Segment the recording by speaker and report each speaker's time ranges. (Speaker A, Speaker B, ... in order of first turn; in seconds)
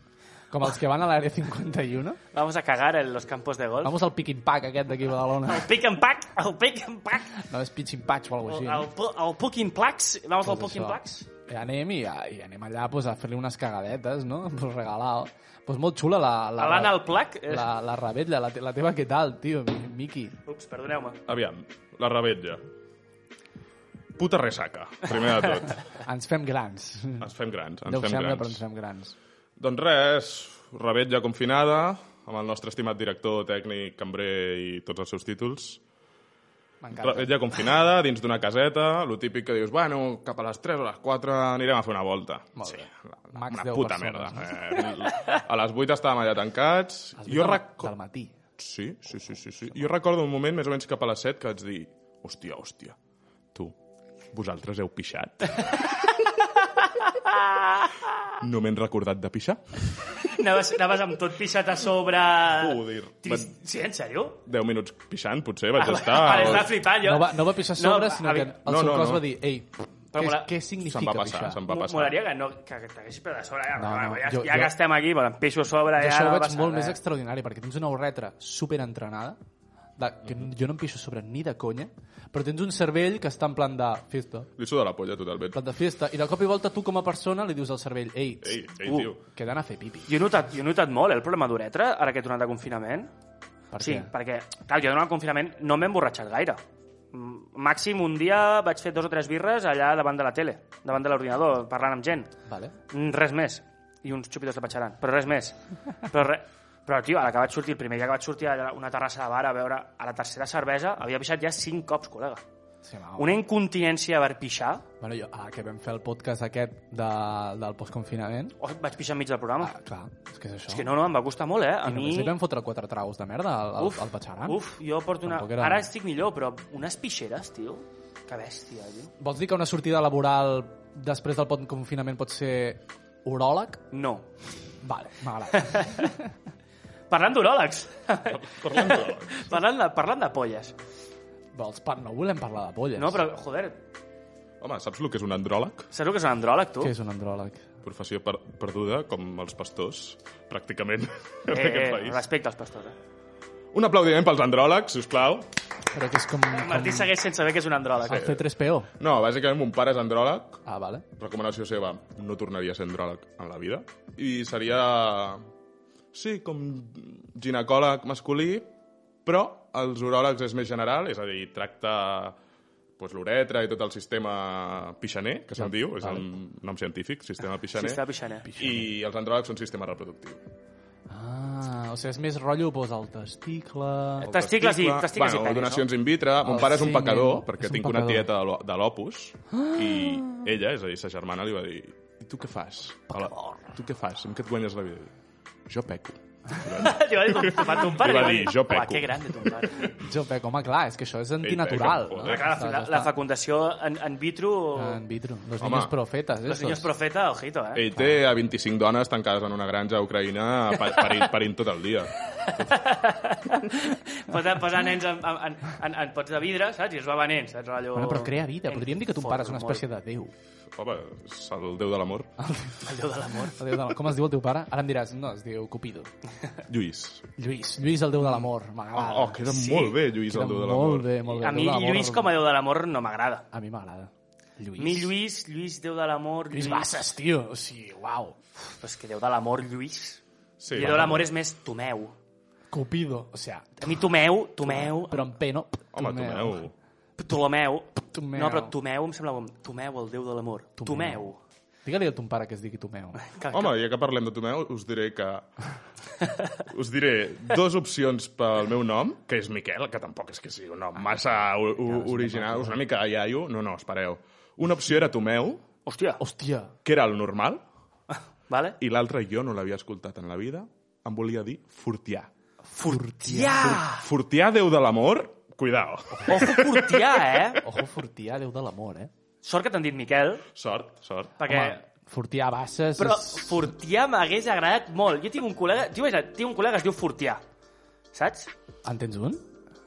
Speaker A: 0.5-2.2, 3.8-5.7, 7.3-8.9, 10.4-20.4, 26.0-27.3, 27.8-29.1, 36.8-37.3, 42.6-44.8, 47.2-48.3, 66.8-71.6, 73.8-74.7, 76.0-79.4, 80.0-84.5, 85.5-88.6, 89.2-90.1, 93.7-94.1, 102.5-102.8, 112.8-113.4, 115.0-118.5, 119.6-121.0, 121.8-124.6, 125.2-125.9, 129.2-133.8, 134.8-136.3, 141.5-143.2, 146.8-147.6, 155.9-157.1, 158.0-158.9, 160.6-161.0, 175.6-176.3, 178.4-178.9, 181.1-184.3, 186.4-188.3, 189.5-190.2, 199.9-203.1, 204.7-206.9, 217.9-220.3, 222.4-226.1, 227.4-229.6, 230.2-232.4, 233.5-235.1, 236.5-238.4, 240.8-241.2, 242.7-243.9, 244.7-246.6, 248.0-248.7, 250.8-251.3, 251.8-253.2, 261.8-262.8, 266.2-266.7, 272.8-273.8, 276.1-276.6, 277.6-279.1, 281.4-283.7, 288.8-289.4
Speaker B: 2.3-3.9, 5.4-7.4, 8.5-11.3, 16.6-17.7, 20.4-21.2, 57.2-57.9, 60.2-64.4, 65.8-68.5, 70.1-70.5, 71.7-77.0, 88.8-89.1, 90.1-93.1, 93.8-96.6, 97.1-102.3, 102.9-112.4, 113.2-114.8, 118.6-119.7, 120.7-122.3, 123.8-129.1, 133.9-134.3, 135.5-136.1, 137.1-140.7, 142.9-143.8, 145.9-146.9, 151.5-152.9, 156.5-158.2, 177.8-178.5, 184.2-185.8, 196.7-199.9, 202.2-205.0, 206.4-207.8, 210.8-211.3, 212.4-219.8, 222.8-223.6, 229.6-229.9, 231.2-233.5, 234.8-236.9, 238.8-240.2, 240.7-242.1, 243.8-245.3, 247.2-251.4, 253.2-253.7, 256.2-256.5, 265.9-266.2, 268.5-268.8, 272.8-274.1, 276.3-277.6, 279.4-280.4, 281.4-281.8, 283.0-287.4, 288.1-288.5
Speaker C: 21.3-22.6, 24.2-25.9, 27.2-28.6, 29.6-35.8, 37.0-47.9, 48.6-53.0, 54.3-56.0, 58.4-59.9, 62.5-63.5, 64.5-66.8, 68.6-69.3, 70.8-72.2, 84.6-85.6, 88.4-89.2, 138.3-139.5, 144.6-145.9, 147.8-152.2, 153.7-155.5, 158.1-158.4, 159.0-160.6, 161.2-165.4, 166.1-168.7, 169.2-172.4, 173.0-178.0, 178.5-180.4, 184.2-195.1, 195.7-199.9, 201.4-202.5, 205.6-205.9, 207.7-212.8, 220.8-222.3, 226.7-227.3, 228.9-231.1, 240.6-241.2, 245.9-246.7, 253.5-255.5, 256.6-265.6, 266.8-267.6, 268.8-272.3, 273.9-277.2, 280.5-281.3